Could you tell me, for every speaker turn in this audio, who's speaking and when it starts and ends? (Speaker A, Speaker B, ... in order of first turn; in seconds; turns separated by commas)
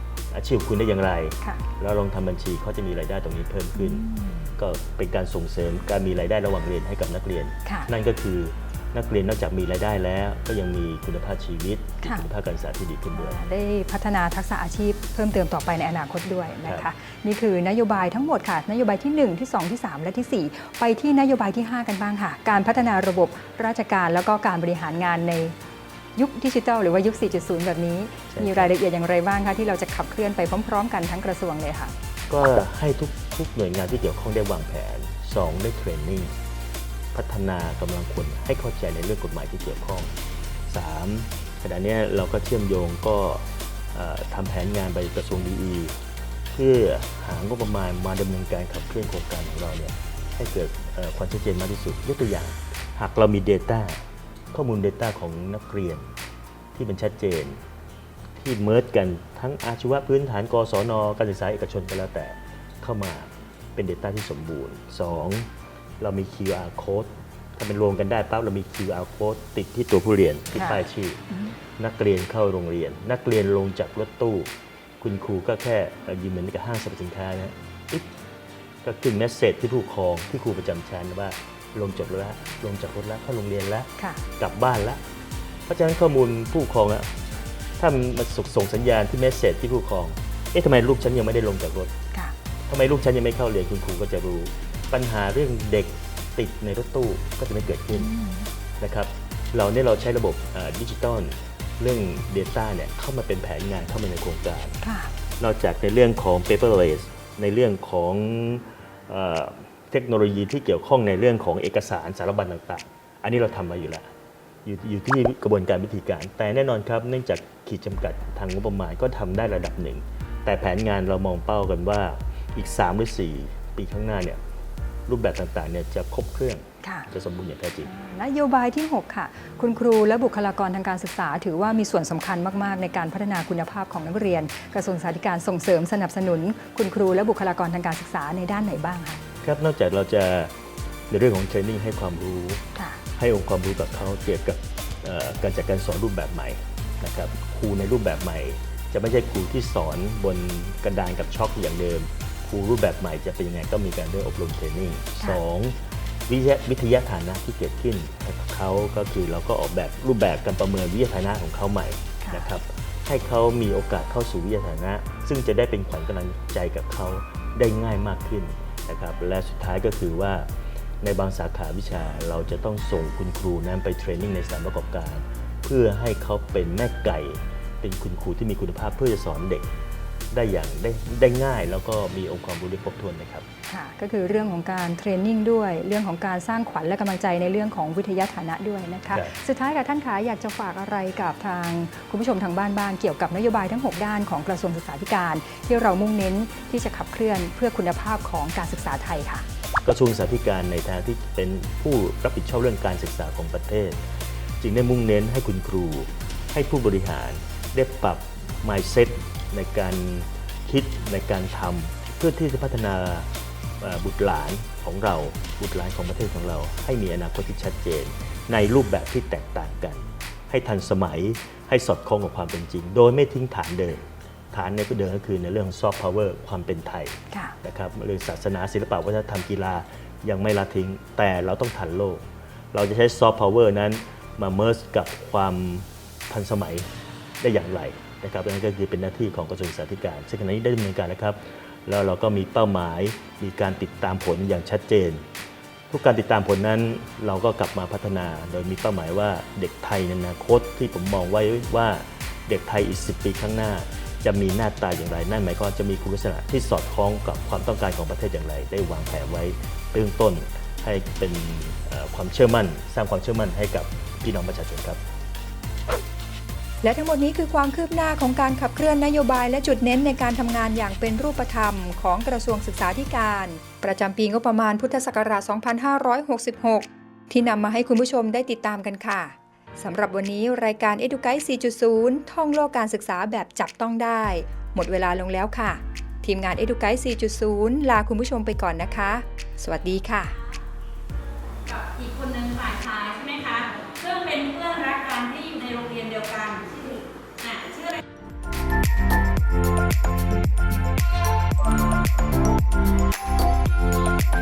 Speaker A: 0.3-4.0, Speaker B: 3.8-4.5, Speaker A: 4.6-13.4, Speaker B: 7.6-7.9, Speaker B: 12.0-12.3, Speaker B: 13.1-25.6, Speaker B: 26.1-31.9, Speaker A: 28.3-28.7, Speaker A: 32.3-36.3, Speaker A: 37.1-40.1, Speaker A: 40.7-46.0, Speaker A: 46.5-56.1, Speaker A: 56.7-57.6, Speaker A: 58.4-65.5, Speaker A: 66.0-71.2, Speaker B: 70.6-70.8, Speaker A: 71.8-74.5, Speaker A: 75.0-78.1, Speaker A: 78.8-85.0, Speaker B: 84.0-84.2, Speaker A: 85.7-87.1, Speaker A: 87.8-91.9, Speaker A: 92.7-98.1, Speaker B: 97.9-98.5, Speaker A: 98.8-104.8, Speaker B: 104.8-105.1, Speaker A: 105.4-114.1, Speaker A: 114.6-124.4, Speaker A: 125.1-127.9, Speaker B: 126.8-127.1, Speaker B: 127.8-139.2, Speaker A: 139.4-140.5, Speaker A: 141.1-142.6, Speaker B: 142.7-143.0, Speaker A: 143.2-170.5, Speaker B: 162.2-162.5, Speaker A: 171.0-179.7, Speaker A: 180.3-183.4, Speaker B: 183.7-199.4, Speaker A: 189.1-189.3, Speaker A: 199.8-204.0, Speaker A: 204.6-213.3, Speaker A: 213.8-236.9, Speaker A: 237.4-245.2, Speaker A: 245.9-265.0, Speaker B: 266.8-290.4, Speaker C: 291.6-298.0